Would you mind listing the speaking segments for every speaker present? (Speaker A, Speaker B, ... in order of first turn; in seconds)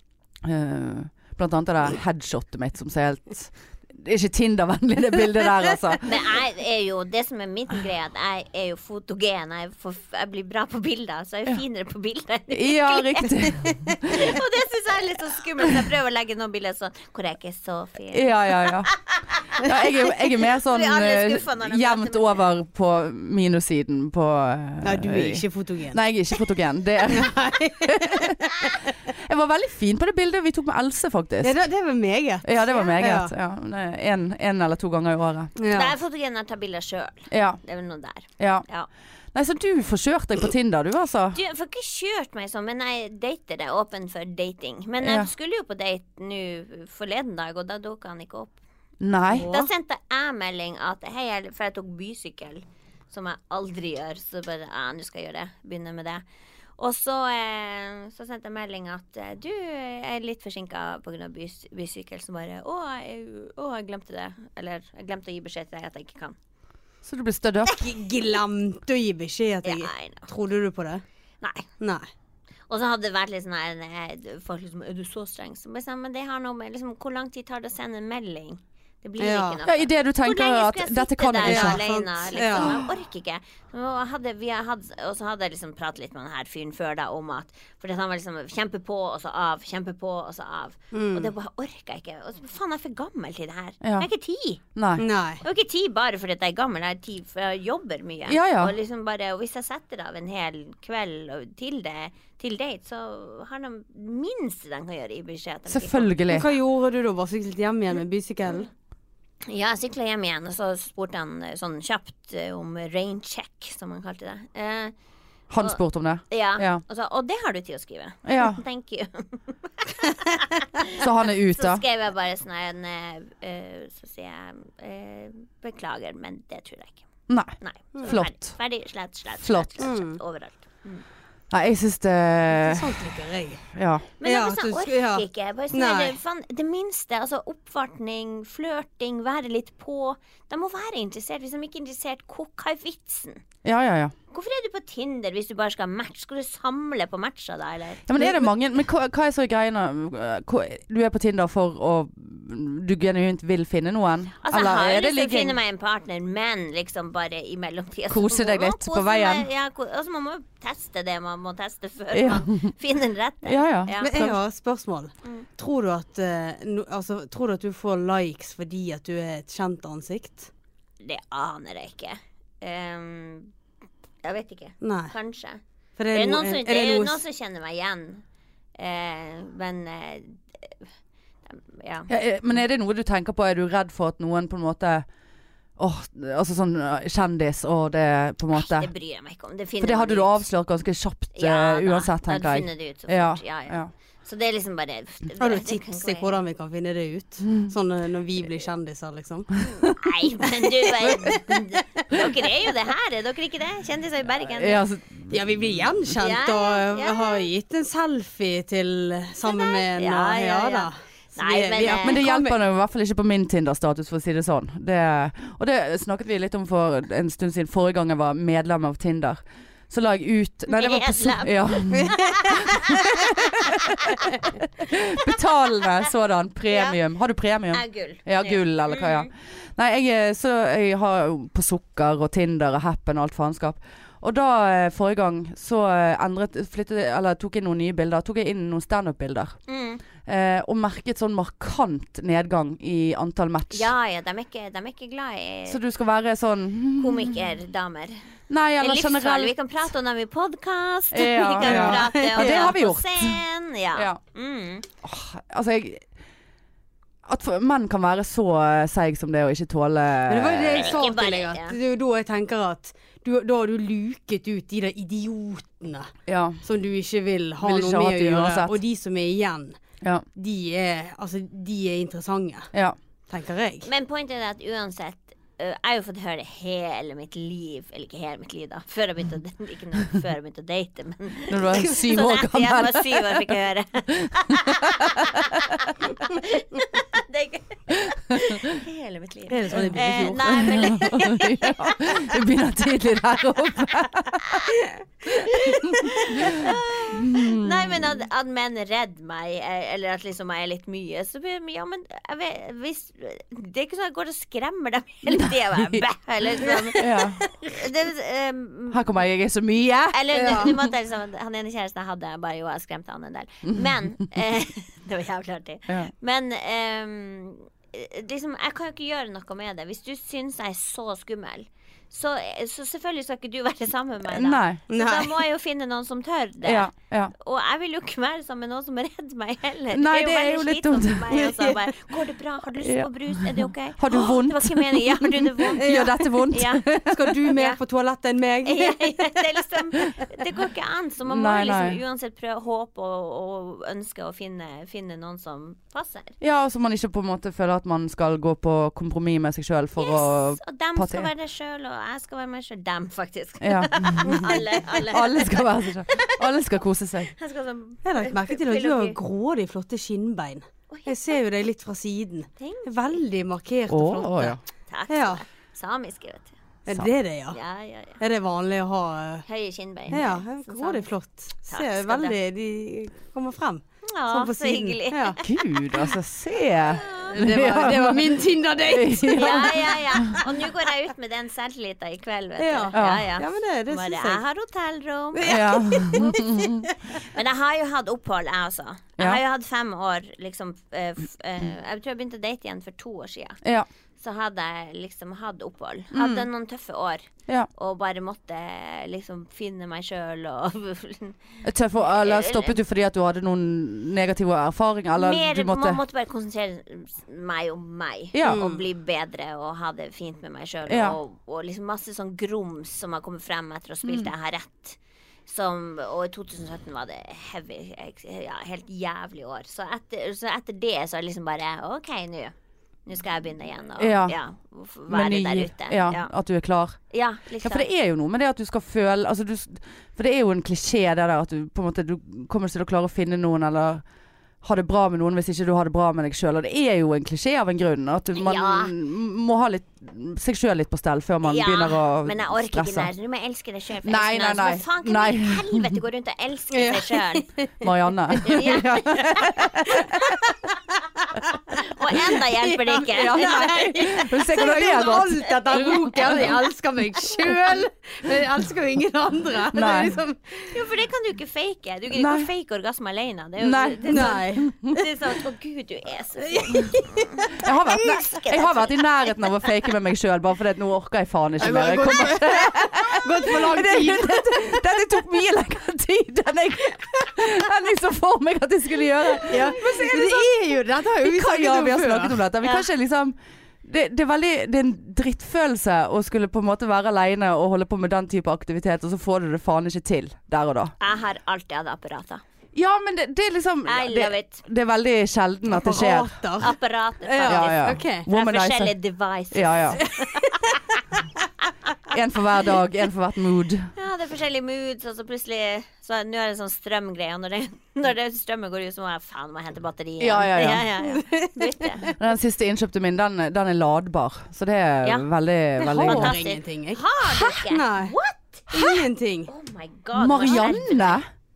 Speaker A: 0.4-6.2, 12.5-14.4, 18.1-18.9, 19.6-31.5, 32.4-35.5, 37.3-37.6, 38.4-38.6, 39.3-41.4, 45.0-45.3, 49.0-49.5, 67.0-67.8, 79.6-81.8, 93.8-94.1, 94.7-95.0, 98.3-98.7, 105.7-106.5, 115.5-116.8, 118.2-118.6, 121.0-121.8, 127.3-128.6, 129.4-129.9, 131.5-133.0, 133.7-134.1, 143.6-144.1, 148.1-155.6, 158.1-159.5, 162.1-162.7, 163.4-164.4, 182.1-185.1, 185.8-188.9, 189.8-193.9, 204.5-205.8, 211.8-224.0, 224.8-239.5, 240.2-243.9, 245.7-247.4, 248.5-249.5, 251.1-253.4, 255.0-256.0, 257.2-261.0, 266.3-266.6, 267.6-268.8, 281.5-283.6, 284.1-285.9, 288.3-288.8, 289.7-294.7, 295.2-298.2, 305.3-306.0, 306.9-307.4, 308.9-310.8, 324.2-324.8, 326.6-327.3, 329.9-331.9, 332.8-337.4, 341.2-342.0, 346.4-351.3, 353.6-357.3, 363.9-364.6, 375.4-380.4, 382.9-383.3, 385.4-386.9, 393.6-393.9, 396.1-396.4, 401.6-406.0, 408.3-408.6, 410.9-411.2, 414.0-414.3, 424.0-424.4, 425.1-427.0, 427.6-434.0, 434.6-443.1, 444.0-445.9, 447.8-450.4, 453.0-456.5, 459.7-460.2, 462.1-462.5, 463.6-465.0, 467.6-480.5, 481.2-490.9, 492.7-496.4, 497.4-498.9, 499.5-500.0, 502.1-503.9, 510.2-510.9, 512.2-516.3, 520.1-521.2
Speaker B: 6.0-22.4, 32.7-33.0, 35.7-38.9, 41.3-48.6, 49.4-56.2, 56.8-66.3, 69.6-70.3, 71.4-71.7, 72.7-94.6, 95.4-106.2, 109.5-114.9, 116.3-127.0, 127.6-131.0, 134.2-143.4, 144.3-148.5, 154.4-164.1, 171.0-173.5, 174.2-175.6, 176.1-178.2, 178.8-180.9, 181.5-182.1, 188.5-190.4, 191.3-196.4, 199.6-204.8, 206.2-207.5, 209.4-212.2, 220.7-225.3, 226.7-227.0, 227.7-229.3, 239.7-240.0, 243.7-245.8, 247.0-248.2, 248.8-254.9, 260.7-261.8, 273.8-292.3, 294.4-294.7, 295.3-309.0, 310.1-336.9, 338.6-346.4, 350.0-356.5, 357.2-359.2, 360.9-361.3, 362.6-363.2, 364.9-366.5, 367.5-368.2, 369.4-371.1, 371.7-372.4, 374.1-375.5, 376.9-377.4, 379.3-393.6, 394.2-402.8, 405.2-422.5, 423.1-426.3, 427.1-427.9, 438.3-438.9, 441.4-447.5, 448.3-449.6, 451.8-456.5, 460.7-469.3, 482.6-482.9, 491.0-492.4, 493.9-494.6, 496.6-500.8, 503.9-512.0, 515.9-521.2
Speaker C: 24.8-26.0, 27.1-29.0, 31.4-33.3, 35.5-35.9, 49.3-49.7, 67.7-71.0, 71.8-72.0, 79.2-79.6, 81.4-82.8, 90.9-91.3, 95.0-95.4, 106.3-108.7, 129.8-130.2, 132.5-133.7, 134.2-136.2, 164.0-170.5, 174.8-175.1, 176.0-177.2, 195.4-199.5, 201.0-202.5, 205.3-212.6, 251.6-252.7, 260.3-269.7, 270.4-272.7, 273.3-273.9, 289.5-290.9, 310.3-310.7, 324.9-325.4, 335.8-336.3, 337.1-339.4, 358.0-365.4, 366.9-367.6, 368.2-369.4, 370.1-375.4, 377.3-380.5, 382.6-384.4, 385.3-387.2, 408.4-408.8, 446.7-448.7, 449.9-460.8, 464.1-464.7, 466.4-467.5, 471.6-475.0, 479.4-482.4, 495.7-498.3, 500.0-500.8, 511.0-512.1, 515.8-518.1, 518.7-519.5